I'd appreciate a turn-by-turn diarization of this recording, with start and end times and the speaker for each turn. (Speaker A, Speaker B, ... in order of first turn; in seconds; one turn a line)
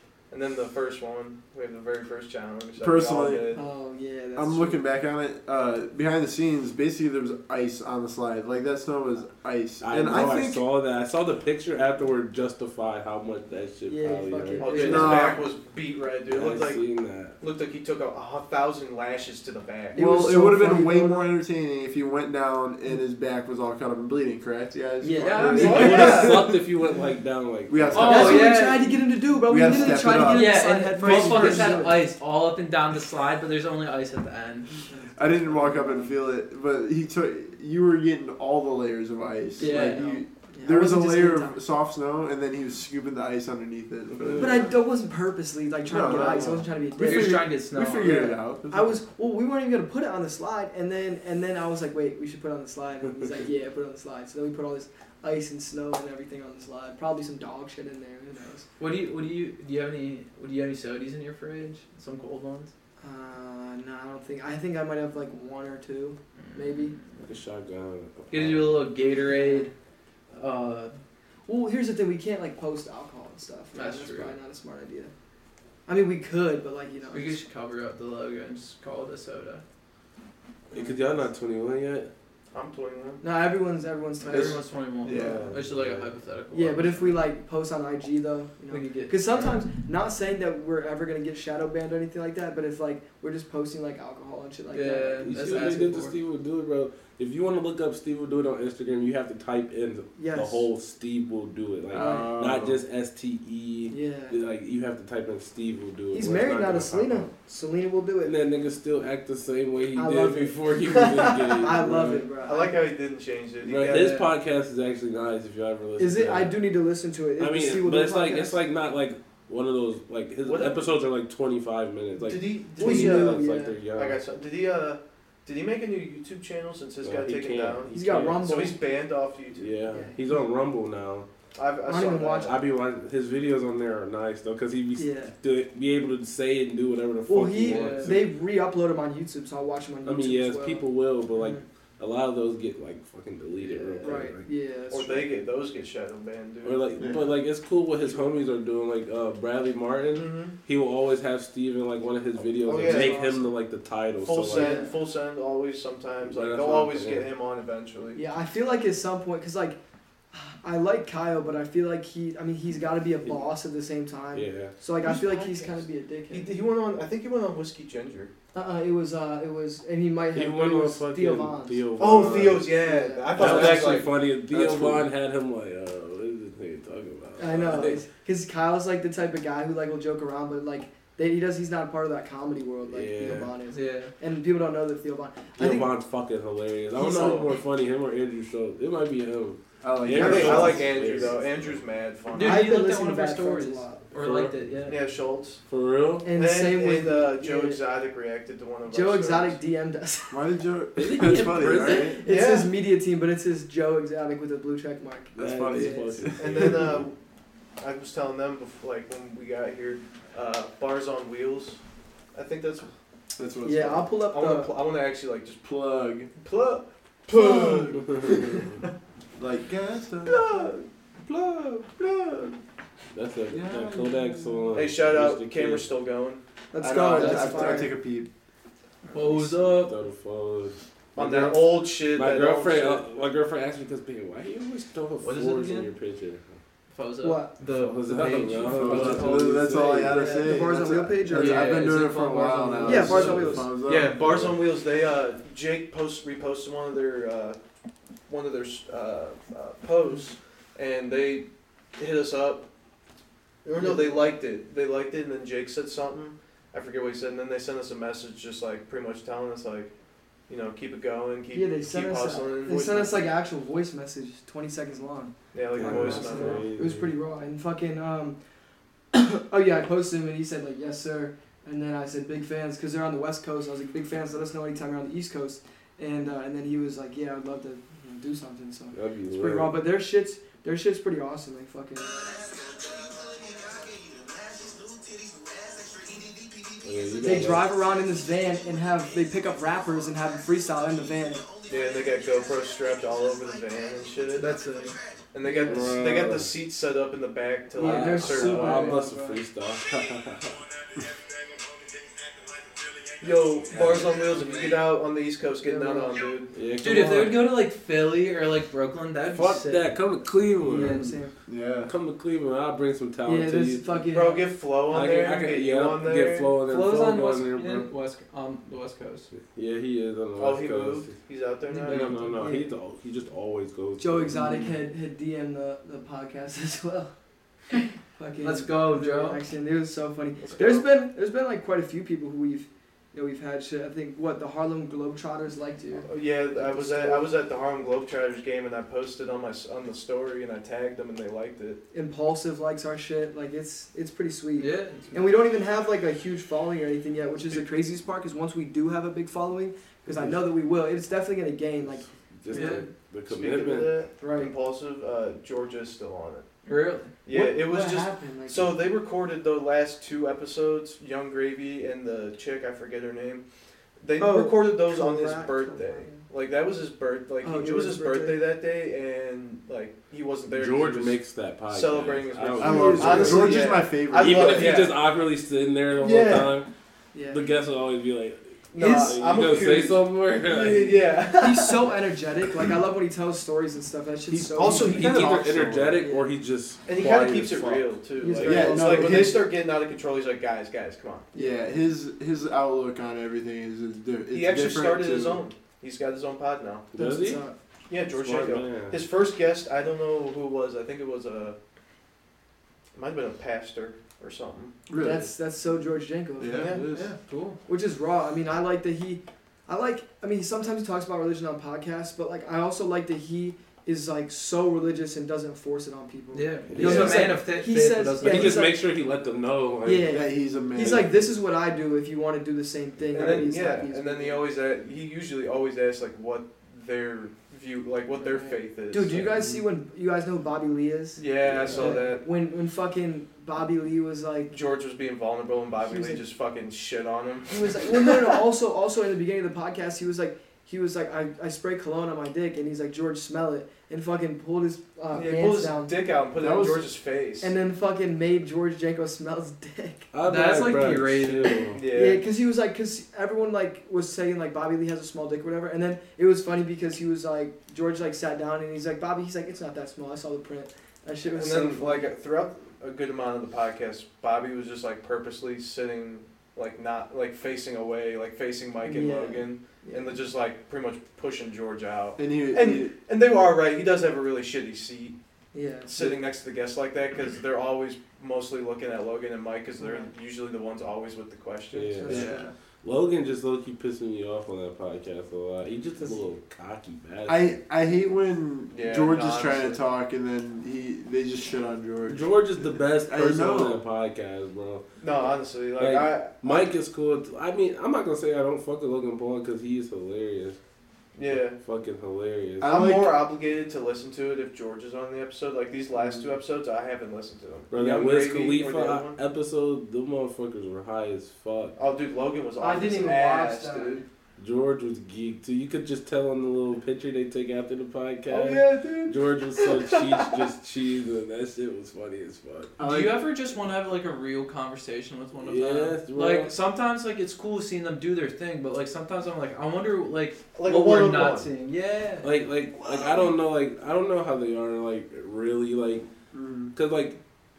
Speaker A: 0.3-3.6
Speaker B: 2.8-3.6
Speaker C: 3.5-4.8
Speaker B: 4.4-10.6
Speaker D: 9.8-15.1
Speaker C: 13.9-15.3
Speaker A: 14.6-16.9
Speaker E: 14.7-15.2
Speaker B: 14.8-15.5
Speaker D: 16.3-17.4
Speaker A: 17.4-20.2
Speaker C: 19.9-21.3
Speaker B: 19.9-26.6
Speaker C: 25.0-26.3
Speaker D: 25.2-28.4
Speaker A: 25.6-26.5
Speaker B: 27.7-28.8
Speaker E: 27.9-29.0
Speaker C: 28.0-32.0
Speaker B: 29.5-31.8
Speaker E: 29.7-34.9
Speaker C: 34.9-36.1
Speaker B: 35.2-44.8
Speaker C: 39.6-41.6
Speaker E: 39.6-40.2
Speaker D: 44.2-44.6
Speaker C: 44.4-58.7
Speaker B: 45.9-49.0
Speaker E: 47.0-48.3
Speaker E: 58.8-62.7
Speaker C: 63.0-67.0
Speaker E: 66.5-67.0
Speaker D: 67.2-68.9
Speaker E: 68.3-69.7
Speaker C: 69.3-69.7
Speaker E: 70.3-71.0
Speaker C: 71.5-75.1
Speaker E: 73.7-74.4
Speaker C: 75.9-77.4
Speaker E: 77.1-79.6
Speaker D: 80.7-82.1
Speaker C: 80.7-81.2
Speaker A: 82.5-83.2
Speaker C: 83.2-85.5
Speaker E: 84.2-87.2
Speaker B: 84.3-85.6
Speaker D: 85.1-86.1
Speaker C: 86.5-96.1
Speaker E: 88.7-89.2
Speaker E: 94.7-96.1
Speaker D: 95.2-107.3
Speaker C: 100.2-100.7
Speaker B: 101.9-102.8
Speaker C: 102.0-102.3
Speaker C: 103.9-104.4
Speaker C: 106.1-108.3
Speaker D: 108.2-112.3
Speaker C: 109.9-112.7
Speaker A: 112.4-114.3
Speaker D: 113.6-116.6
Speaker E: 113.8-114.3
Speaker C: 116.0-118.6
Speaker D: 117.4-124.2
Speaker A: 120.4-120.9
Speaker A: 122.2-123.4
Speaker C: 122.8-123.8
Speaker A: 124.0-129.7
Speaker D: 127.0-128.4
Speaker C: 127.9-128.8
Speaker D: 129.6-131.3
Speaker C: 129.9-130.2
Speaker A: 131.6-132.6
Speaker C: 131.9-132.6
Speaker D: 132.4-138.3
Speaker C: 135.0-135.3
Speaker C: 137.3-141.6
Speaker E: 137.7-138.2
Speaker D: 140.1-144.5
Speaker C: 144.0-145.3
Speaker A: 144.9-146.9
Speaker D: 146.6-154.8
Speaker B: 147.0-147.3
Speaker A: 150.1-150.6
Speaker A: 152.6-153.2
Speaker C: 152.8-153.5
Speaker A: 154.2-158.2
Speaker C: 154.5-154.9
Speaker D: 156.2-157.3
Speaker C: 158.2-159.8
Speaker C: 160.3-166.5
Speaker D: 164.3-164.8
Speaker A: 165.0-168.3
Speaker C: 168.5-171.8
Speaker D: 170.3-172.7
Speaker A: 172.0-174.2
Speaker C: 172.7-174.0
Speaker D: 173.3-178.0
Speaker B: 174.6-175.0
Speaker C: 177.4-185.9
Speaker D: 182.9-183.5
Speaker E: 183.7-184.1
Speaker D: 185.6-191.8
Speaker C: 186.9-187.5
Speaker B: 189.8-191.4
Speaker A: 190.1-192.7
Speaker E: 192.3-195.0
Speaker C: 192.4-194.0
Speaker D: 194.2-194.6
Speaker A: 194.9-195.6
Speaker D: 195.7-196.3
Speaker C: 196.2-197.8
Speaker A: 196.3-199.6
Speaker C: 198.9-200.4
Speaker B: 200.3-202.2
Speaker D: 201.0-202.2
Speaker E: 201.6-201.9
Speaker C: 201.9-206.2
Speaker A: 202.2-202.7
Speaker D: 205.4-207.0
Speaker B: 205.4-207.0
Speaker A: 206.4-207.2
Speaker A: 207.8-211.8
Speaker A: 212.3-212.9
Speaker B: 213.4-214.1
Speaker C: 213.6-214.8
Speaker A: 214.3-215.7
Speaker B: 215.6-216.3
Speaker A: 216.3-218.8
Speaker C: 217.3-218.1
Speaker D: 218.1-218.7
Speaker B: 219.4-220.5
Speaker A: 220.2-222.6
Speaker D: 223.1-225.9
Speaker B: 223.5-224.8
Speaker A: 224.7-226.4
Speaker C: 226.7-228.0
Speaker B: 226.8-228.3
Speaker E: 227.2-227.8
Speaker E: 229.1-229.9
Speaker D: 229.6-236.6
Speaker A: 231.2-233.1
Speaker A: 235.2-235.9
Speaker E: 236.9-240.5
Speaker C: 237.2-237.5
Speaker D: 237.8-240.2
Speaker B: 238.7-244.6
Speaker C: 240.0-241.8
Speaker E: 241.3-243.6
Speaker C: 242.8-243.7
Speaker D: 243.2-243.5
Speaker A: 243.8-247.6
Speaker A: 248.3-252.7
Speaker A: 253.6-259.9
Speaker C: 253.8-254.3
Speaker A: 260.5-263.3
Speaker C: 261.5-268.4
Speaker A: 265.5-266.7
Speaker D: 265.7-267.1
Speaker C: 269.1-282.4
Speaker D: 278.9-279.8
Speaker D: 286.8-287.8
Speaker C: 287.2-291.5
Speaker A: 291.7-294.5
Speaker E: 294.4-295.0
Speaker A: 295.3-299.0
Speaker C: 295.4-295.9
Speaker D: 295.6-296.5
Speaker C: 297.7-299.4
Speaker D: 297.8-300.6
Speaker A: 303.2-306.5
Speaker C: 305.6-306.2
Speaker D: 306.5-307.4
Speaker E: 306.8-309.9
Speaker D: 309.3-311.1
Speaker C: 310.6-311.3
Speaker E: 310.7-311.2
Speaker B: 311.5-311.9
Speaker D: 311.9-313.9
Speaker C: 313.2-314.5
Speaker A: 314.1-316.5
Speaker D: 314.9-317.9
Speaker E: 316.7-319.3
Speaker D: 319.4-321.1
Speaker A: 320.4-322.2
Speaker E: 321.7-322.5
Speaker D: 321.9-324.7
Speaker C: 322.4-322.7
Speaker C: 324.0-327.1
Speaker C: 327.7-337.3
Speaker E: 328.4-329.4
Speaker A: 330.4-330.9
Speaker A: 336.0-341.8
Speaker C: 341.9-352.8
Speaker E: 344.6-345.2
Speaker D: 350.1-350.4
Speaker D: 351.9-354.0
Speaker E: 352.5-352.8
Speaker A: 353.3-356.4
Speaker C: 354.2-354.5
Speaker E: 356.6-357.1
Speaker A: 357.2-363.4
Speaker C: 357.3-358.8
Speaker A: 364.0-375.0
Speaker C: 364.2-366.2
Speaker C: 367.4-368.4
Speaker D: 370.5-376.7
Speaker B: 372.6-374.9
Speaker C: 372.6-373.6
Speaker A: 376.0-376.5
Speaker C: 377.1-377.5
Speaker D: 377.3-381.0
Speaker A: 378.7-381.9
Speaker C: 378.8-379.2
Speaker C: 381.3-385.2
Speaker B: 384.3-384.7
Speaker A: 384.5-385.9
Speaker D: 384.7-388.0
Speaker C: 386.0-386.3
Speaker A: 386.9-391.3
Speaker C: 388.2-389.4
Speaker B: 388.4-389.5
Speaker C: 391.3-391.6
Speaker B: 391.3-395.4
Speaker A: 394.3-396.9
Speaker D: 396.9-397.4
Speaker C: 396.9-397.6
Speaker A: 397.9-401.6
Speaker D: 398.0-399.0
Speaker A: 402.9-404.8
Speaker B: 404.9-405.3
Speaker C: 405.0-406.8
Speaker B: 406.4-406.9
Speaker A: 406.5-406.9
Speaker D: 406.6-407.1
Speaker E: 406.9-407.6
Speaker C: 407.7-418.8
Speaker E: 416.3-418.7
Speaker D: 416.7-417.3
Speaker B: 416.8-417.2
Speaker D: 418.2-421.1
Speaker C: 419.8-424.5
Speaker B: 420.0-421.2
Speaker A: 423.1-429.3
Speaker C: 428.2-434.5
Speaker B: 429.4-429.6
Speaker A: 431.2-432.3
Speaker D: 431.4-431.9
Speaker A: 434.5-438.3
Speaker C: 435.8-436.2
Speaker C: 437.5-446.1
Speaker A: 445.1-447.5
Speaker B: 446.4-446.9
Speaker C: 447.4-450.1
Speaker D: 450.1-451.8
Speaker E: 450.2-451.7
Speaker A: 451.7-452.2
Speaker C: 451.9-462.1
Speaker A: 461.3-475.2
Speaker C: 468.8-470.2
Speaker B: 472.2-473.0
Speaker C: 475.5-476.2
Speaker A: 475.9-482.4
Speaker C: 479.8-480.1
Speaker D: 481.7-487.6
Speaker C: 482.0-482.5
Speaker B: 482.1-482.5
Speaker B: 487.3-492.3
Speaker A: 488.7-489.8
Speaker D: 492.1-494.9
Speaker B: 493.0-493.8
Speaker A: 495.0-496.7
Speaker D: 495.8-500.6
Speaker A: 501.1-501.6
Speaker D: 501.3-502.9
Speaker B: 502.6-503.2
Speaker A: 502.6-509.2
Speaker D: 507.7-511.8
Speaker A: 511.8-514.0
Speaker C: 512.6-514.1
Speaker D: 514.4-522.7
Speaker C: 518.3-520.3
Speaker B: 518.4-518.8
Speaker B: 522.8-523.2
Speaker E: 522.8-532.3
Speaker D: 525.4-526.5
Speaker A: 530.5-531.5
Speaker D: 532.2-536.0
Speaker B: 536.3-536.7
Speaker D: 536.7-537.2